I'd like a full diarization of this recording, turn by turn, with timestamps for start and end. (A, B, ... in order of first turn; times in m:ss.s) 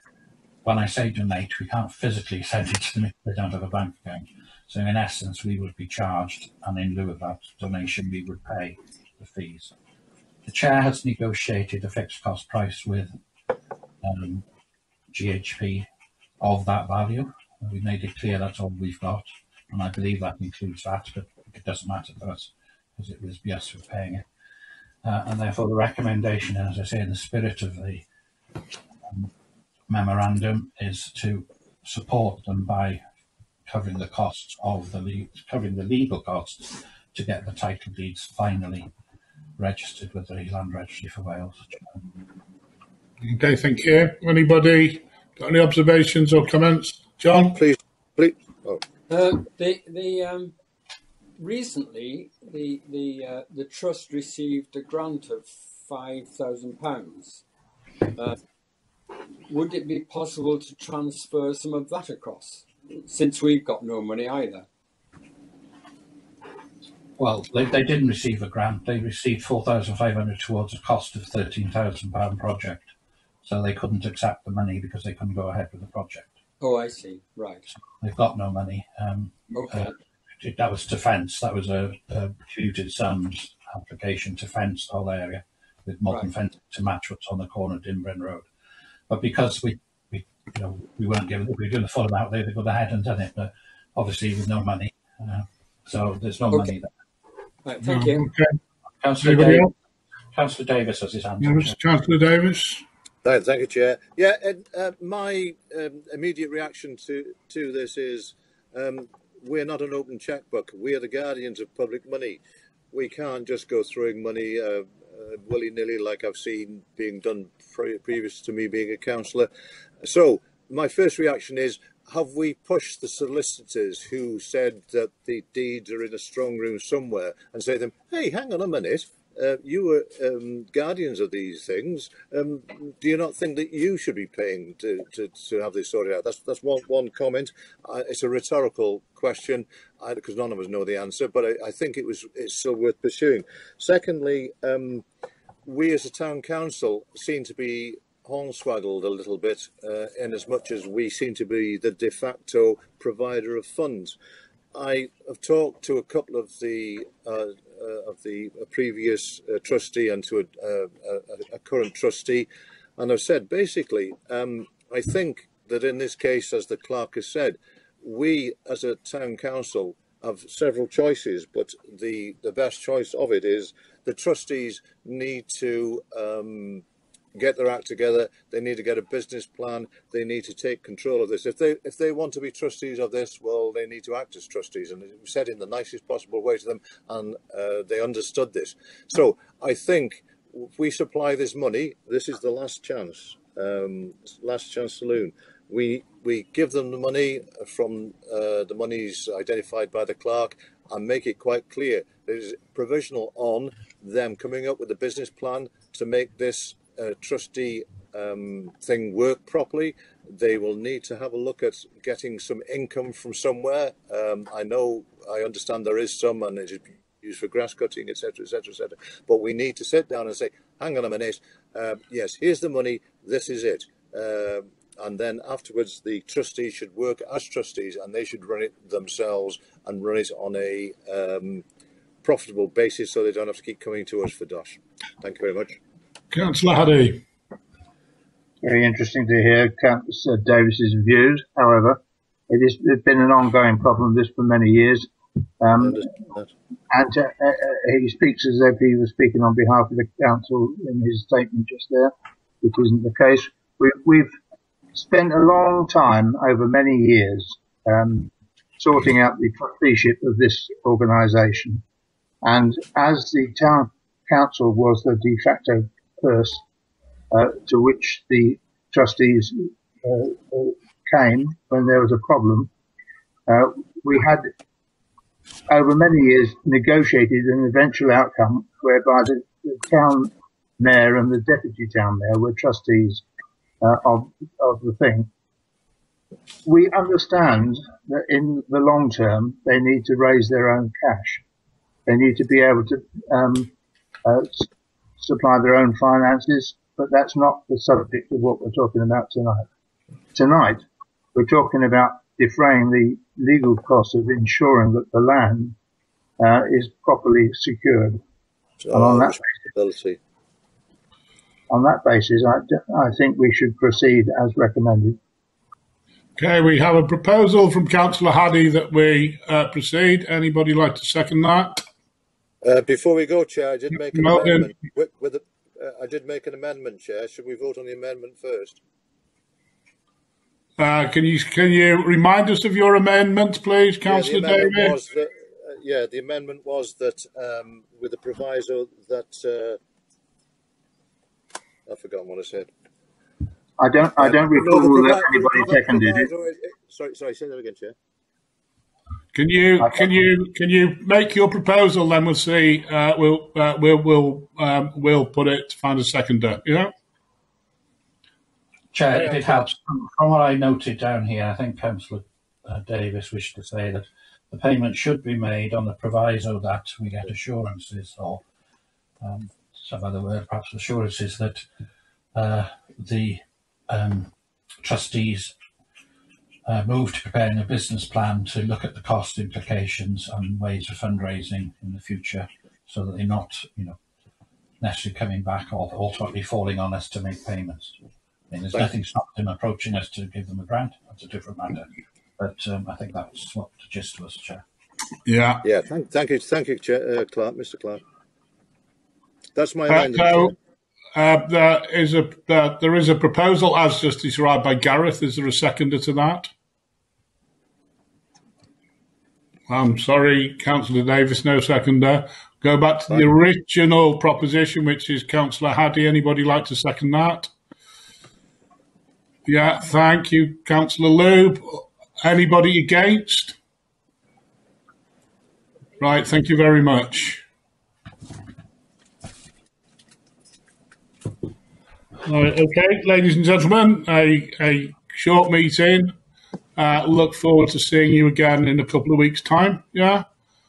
0:00.6-0:09.7 A
0:10.4-0:13.1 A
0:14.0-0:14.4 A
0:15.1-0:15.9 A
0:16.4-0:24.2 A
0:25.0-0:28.0 A
0:29.0-0:29.3 A
0:29.9-0:33.0 A
0:33.7-0:38.9 A
0:39.6-0:42.0 A
0:43.2-0:47.6 B
0:47.5-0:48.8 C
0:49.1-0:50.5 D
0:51.4-0:57.4 D
0:59.5-1:04.7 D
1:07.2-1:12.9 A
1:13.4-1:16.3 A
1:16.6-1:17.7 D
1:18.0-1:28.5 A
1:19.5-1:19.9 D
1:29.1-1:36.9 A
1:37.6-1:38.3 D
1:37.8-1:38.6 B
1:39.0-1:39.7 A
1:39.2-1:39.7 B
1:40.3-1:41.8 A
1:41.4-1:42.8 B
1:43.2-1:52.4 C
1:52.9-1:59.5 C
2:00.0-2:25.0 C
2:25.6-2:34.1 C
2:34.7-3:51.6 C
3:52.2-3:55.8 C
3:56.3-3:57.2 B
3:58.6-4:06.2 E
4:05.8-4:06.5 C
4:06.9-4:14.3 E
4:14.9-4:21.8 E
4:22.4-4:26.6 E
4:27.3-4:32.7 E
4:33.5-4:34.5 E
4:35.7-4:43.2 E
4:43.8-4:45.3 E
4:46.6-4:51.4 E
4:52.1-4:53.7 E
4:54.2-4:54.7 E
4:55.2-4:59.6 E
5:00.3-5:00.8 E
5:01.3-5:05.8 E
5:06.4-5:08.2 E
5:08.8-5:10.2 C
5:08.9-5:09.6 E
5:11.7-5:15.2 E
5:16.4-5:21.8 B
5:22.6-5:28.8 C
5:24.1-5:24.7 B
5:30.8-5:35.0 B
5:34.0-5:39.8 C
5:41.8-5:42.7 C
5:43.8-5:46.3 E
5:44.2-5:47.9 C
5:49.3-5:56.9 B
5:58.9-6:08.4 A
6:09.2-6:11.6 A
6:12.3-6:15.5 A
6:16.6-6:24.0 A
6:24.8-6:27.9 A
6:28.5-6:31.9 A
6:32.4-6:34.6 A
6:35.2-6:35.6 B
6:35.6-6:38.0 C
6:39.5-6:40.5 C
6:39.9-6:40.5 B
6:41.1-6:46.5 B
6:49.7-6:57.5 B
6:59.4-7:03.6 B
7:06.0-7:07.4 B
7:12.2-7:16.1 B
7:16.8-7:20.2 B